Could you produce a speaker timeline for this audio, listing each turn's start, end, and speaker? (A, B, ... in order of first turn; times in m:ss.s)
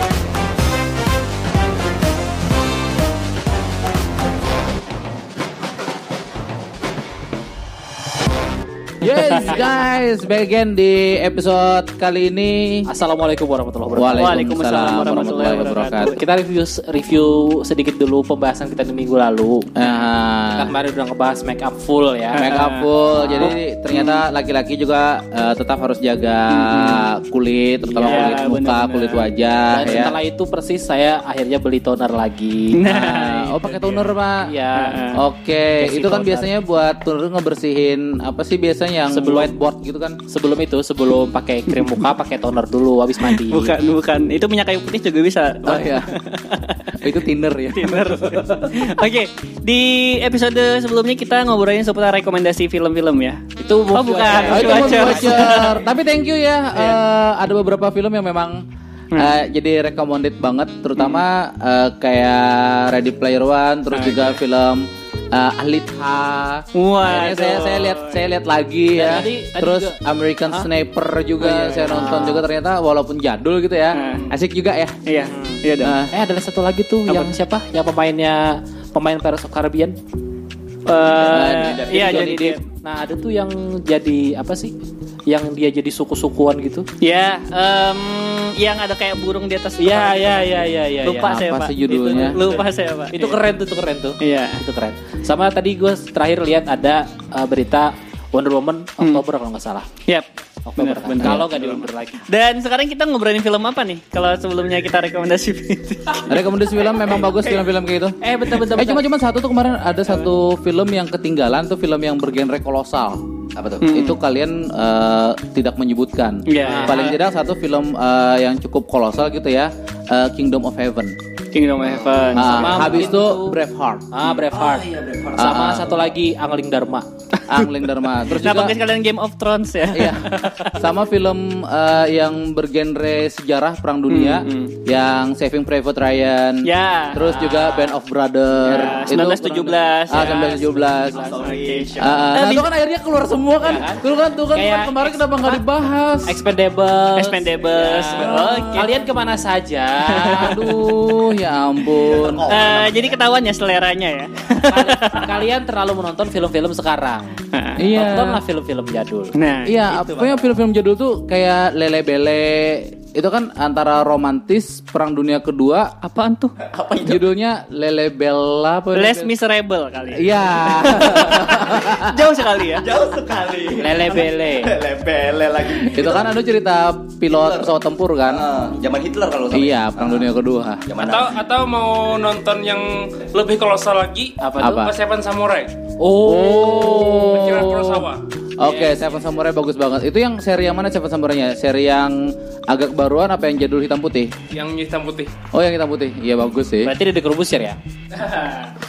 0:09.0-0:12.9 A
0:09.1-0:09.6 B
0:12.9-0:14.4 C
0:13.9-0:16.1 A
0:14.1-0:16.2 B
0:16.0-0:19.7 C
0:19.8-0:20.7 A
0:20.5-0:22.4 C
0:22.3-0:24.2 B
0:22.4-0:30.1 A
0:23.2-0:23.5 C
0:26.5-0:27.0 B
0:27.8-0:28.4 C
0:28.0-0:29.3 B
0:29.7-0:32.9 C
0:32.8-0:33.5 B
0:32.8-0:34.4 A
0:34.4-0:35.2 C
0:34.8-0:35.2 B
0:35.2-0:40.2 A
0:35.8-0:36.5 C
0:39.1-0:39.5 C
0:40.3-0:43.7 C
0:41.7-0:42.1 B
0:43.2-0:47.0 B
0:45.6-0:46.1 A
0:47.0-0:48.7 A
0:47.7-0:53.4 B
0:53.6-0:55.6 C
0:53.9-0:55.8 B
0:54.5-0:58.6 A
0:56.7-0:57.0 B
0:59.1-1:15.0 A
1:01.0-1:01.2 B
1:03.9-1:04.4 B
1:06.7-1:08.2 B
1:08.9-1:10.7 C
1:11.4-1:12.4 B
1:11.9-1:12.4 C
1:13.9-1:14.3 B
1:14.0-1:14.3 D
1:15.0-1:16.0 B
1:15.2-1:20.0 C
1:15.8-1:16.1 A
1:17.1-1:17.3 B
1:20.8-1:22.6 B
1:20.9-1:22.4 D
1:21.3-1:22.6 A
1:22.8-1:24.7 C
1:25.3-1:26.8 C
1:27.0-1:33.4 B
1:29.8-1:39.9 C
1:31.2-1:32.4 A
1:34.2-1:34.6 B
1:40.0-1:46.3 B
1:40.6-1:42.2 C
1:41.2-1:41.5 A
1:46.3-1:53.2 A
1:48.2-1:49.0 C
1:53.6-1:53.9 D
1:53.8-1:54.2 B
1:53.8-2:01.1 A
1:56.5-1:57.0 B
1:56.6-1:57.2 C
2:01.5-2:02.9 B
2:01.8-2:02.9 D
2:02.3-2:04.0 A
2:02.4-2:03.6 C
2:04.1-2:07.1 C
2:04.5-2:05.6 D
2:05.4-2:05.9 A
2:07.5-2:08.8 A
2:08.3-2:10.8 B
2:09.9-2:21.2 A
2:14.1-2:14.7 B
2:16.6-2:18.0 B
2:18.6-2:20.6 B
2:18.7-2:19.1 C
2:20.2-2:21.6 C
2:21.1-2:22.3 D
2:21.3-2:22.7 B
2:22.0-2:26.4 A
2:23.6-2:25.6 C
2:26.2-2:30.6 C
2:27.2-2:28.9 B
2:30.1-2:30.9 B
2:30.2-2:32.4 A
2:32.0-2:33.2 D
2:32.5-2:35.3 B
2:34.6-2:37.2 C
2:37.5-2:37.8 B
2:37.8-2:38.4 A
2:37.8-2:39.4 C
2:39.4-2:39.8 B
2:39.6-2:45.9 A
2:39.8-2:40.5 D
2:46.0-2:46.6 B
2:46.6-2:47.3 D
2:47.0-2:49.3 A
2:48.9-2:52.9 B
2:50.1-2:52.2 A
2:52.8-2:56.3 D
2:53.8-2:54.7 C
2:55.9-2:58.4 A
2:57.3-2:57.7 D
2:58.3-3:00.3 D
2:59.5-3:00.8 A
3:00.8-3:01.4 D
3:01.0-3:05.7 E
3:04.4-3:04.8 C
3:04.6-3:04.9 A
3:06.0-3:07.2 C
3:06.2-3:08.1 A
3:07.2-3:09.0 E
3:08.6-3:12.2 A
3:12.7-3:14.3 A
3:14.5-3:15.3 E
3:15.5-3:16.9 A
3:16.8-3:17.8 C
3:18.2-3:18.7 B